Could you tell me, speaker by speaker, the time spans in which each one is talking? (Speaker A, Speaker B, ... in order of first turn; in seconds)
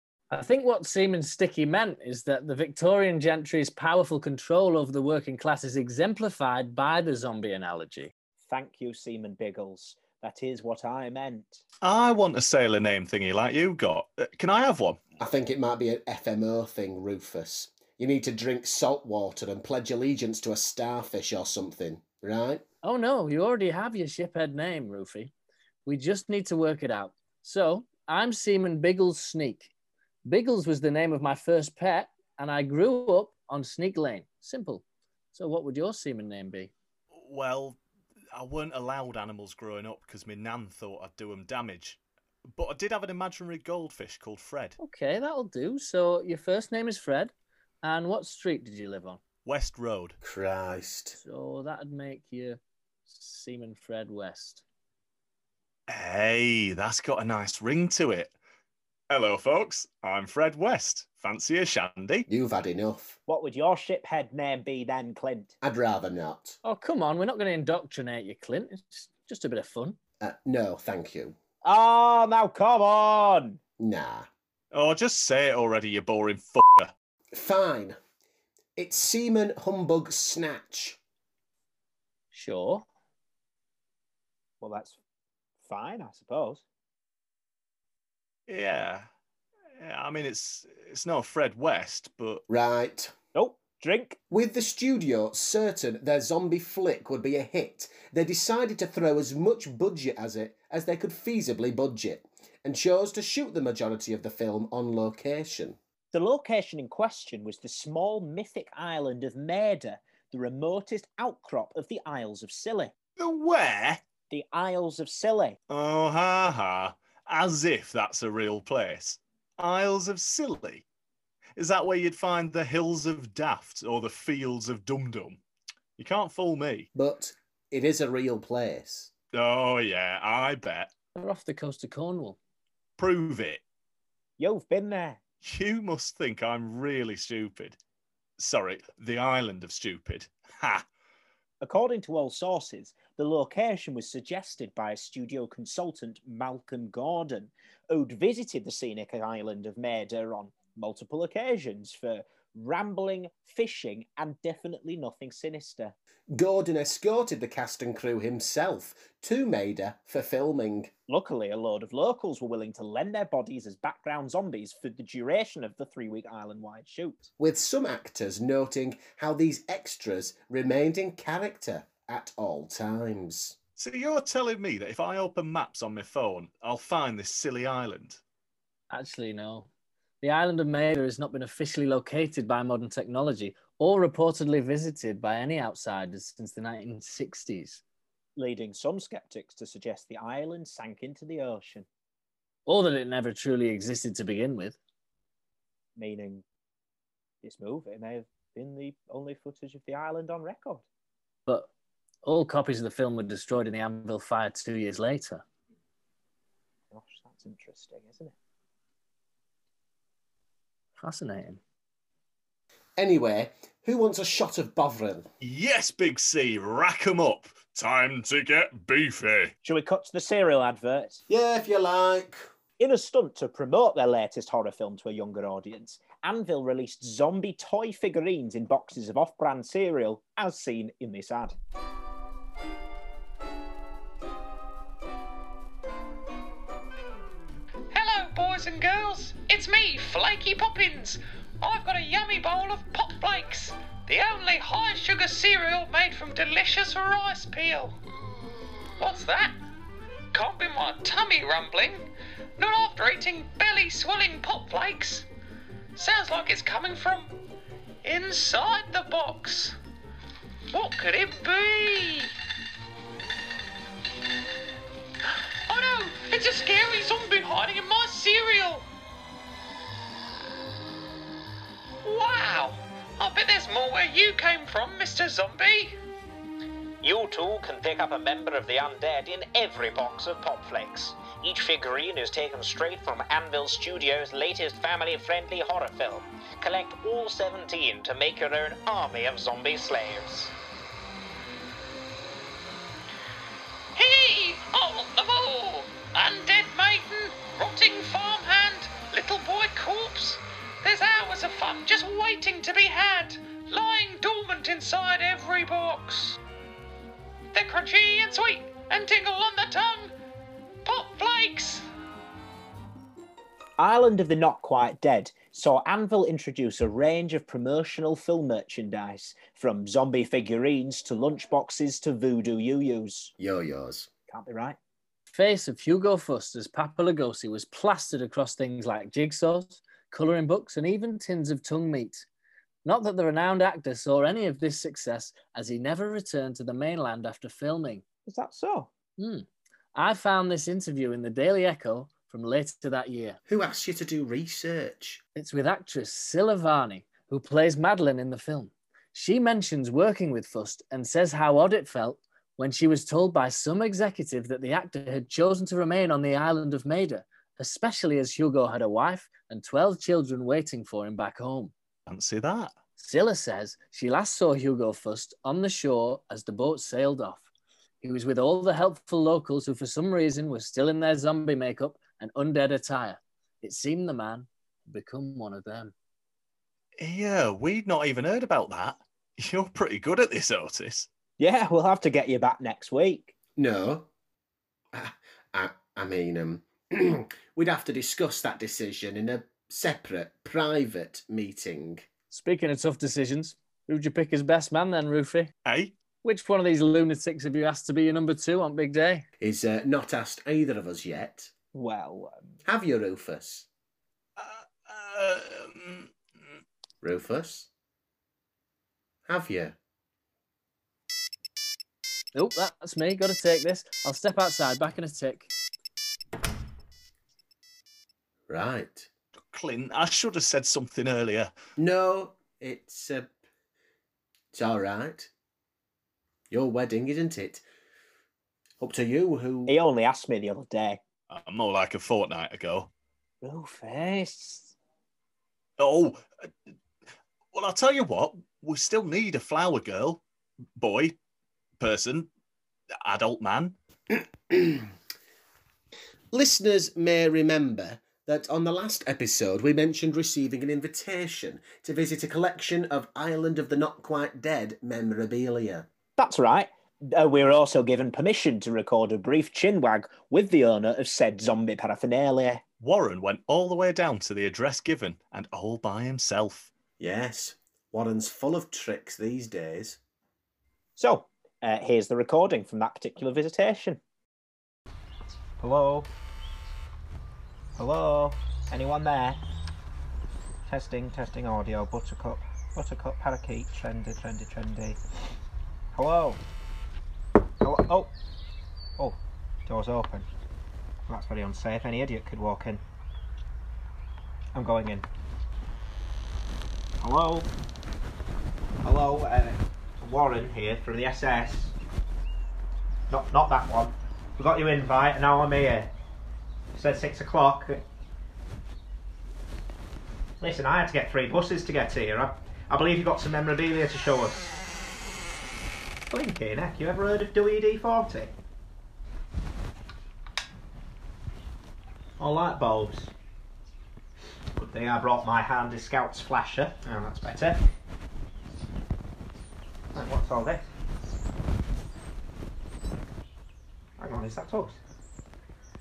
Speaker A: 0.3-8.1, 22.8-25.3, 25.9-29.7, 30.2-36.7, 44.8-49.2, 51.1-54.6, 66.6-70.0, 82.3-82.9, 131.1-132.4, 178.9-179.7, 180.2-187.8, 192.7-194.8, 202.2-205.4, 211.0-211.6, 325.3-332.3, 332.9-338.1, 339.2-343.4, 345.4-361.7, 363.0-367.4, 368.0-375.9, 392.3-395.5, 396.2-399.3, 412.3-415.5
Speaker B: 8.4-11.6, 63.3-65.6, 71.6-73.6, 84.6-85.0, 85.6-86.6, 93.3-94.2, 106.1-112.9, 114.3-115.6, 134.4-135.2, 141.6-155.9, 161.1-167.3, 188.4-191.9, 195.9-196.4, 197.4-200.8, 206.9-208.4, 219.6-221.2, 222.8-231.6, 313.8-323.3, 324.3-324.8, 338.2-338.9, 381.4-383.4, 401.7-402.6, 429.7-431.0, 433.4-434.8, 456.2-462.6, 471.0-474.0, 475.6-476.1, 477.8-479.4, 480.6-485.0, 485.9-486.4, 487.6-488.1, 489.0-490.3, 491.1-492.8, 494.5-495.1, 497.0-497.5, 498.8-501.8, 503.1-505.9, 506.7-507.8, 510.4-514.5, 516.1-518.3, 522.2-523.1, 524.6-527.6, 529.9-530.7, 534.0-534.8
Speaker C: 11.8-15.0, 37.1-37.8, 38.3-42.0, 42.5-44.8, 49.5-50.2, 55.9-58.3, 59.1-62.3, 74.7-76.9, 88.5-89.1, 89.8-92.4, 113.2-114.0, 115.7-120.8, 121.6-125.4, 126.0-126.9, 129.3-130.9, 133.0-133.6, 135.4-137.8, 138.4-140.9, 173.8-178.2, 215.4-219.5, 362.1-362.8, 377.0-381.1, 395.6-395.9, 404.4-406.1, 419.5-421.5, 431.3-432.9, 435.8-436.2, 437.5-440.2, 440.8-441.2, 441.8-442.3, 443.0-443.8, 462.8-466.7
Speaker D: 15.2-22.6, 50.2-51.2, 62.3-63.2, 65.6-66.6, 70.2-71.4, 73.8-74.3, 77.3-78.0, 78.8-81.0, 92.5-93.1, 94.3-105.8, 127.0-129.1, 156.3-160.9, 167.4-173.6, 213.0-215.3, 221.3-222.5, 323.4-324.1, 343.5-345.2, 383.6-384.1, 384.9-392.1, 399.4-401.5, 402.6-403.7, 407.0-407.7, 409.3-409.8, 418.5-419.1, 421.8-423.3, 424.5-425.3, 426.5-427.6, 428.8-429.8, 444.5-444.9, 446.3-455.9, 467.0-470.0
Speaker E: 237.9-248.0, 249.0-249.6, 250.3-255.3, 255.9-257.4, 258.0-259.8, 260.7-262.3, 265.6-268.9, 272.0-275.9, 293.9-306.4, 307.5-310.1, 310.9-311.9
Speaker F: 277.0-290.5